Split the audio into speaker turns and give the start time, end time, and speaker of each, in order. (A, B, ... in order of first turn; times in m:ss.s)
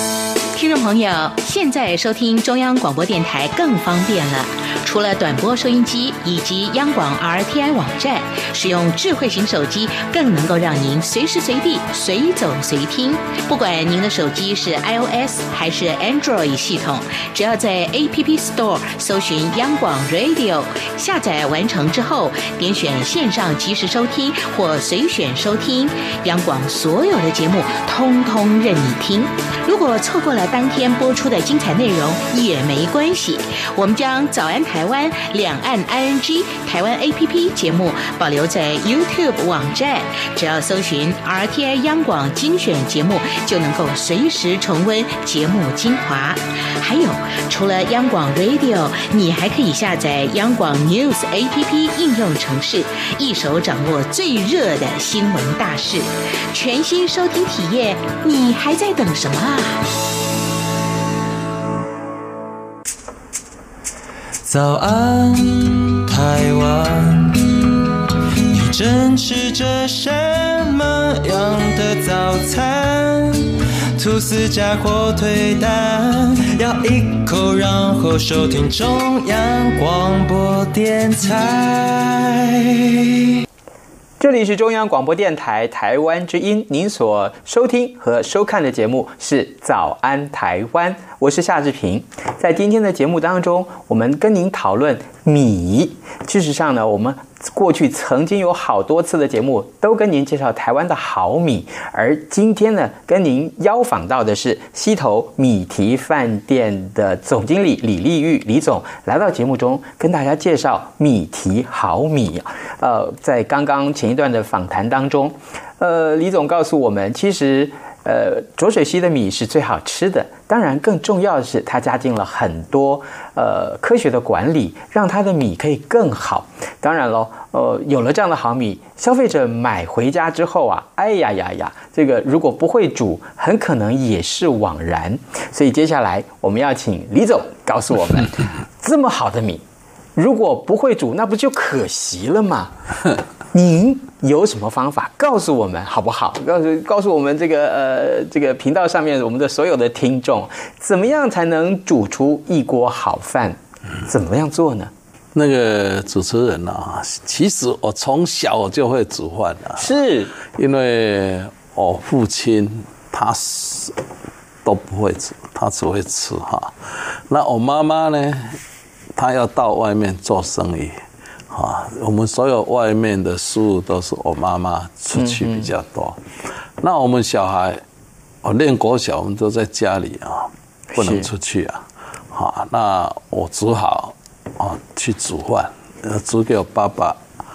0:00.6-0:59.8 A
1:04.4-1:07.7 B
1:08.5-1:23.1 B
1:24.2-2:19.6 C
2:20.2-2:22.8 C
2:23.5-2:34.9 C
2:35.3-2:39.9 D
2:39.8-2:40.4 C
2:40.5-2:44.0 D
2:44.6-2:48.6 D
2:49.2-2:56.2 D
2:55.2-2:55.7 C
2:56.8-2:57.8 D
2:58.4-3:07.2 D
3:00.9-3:01.3 C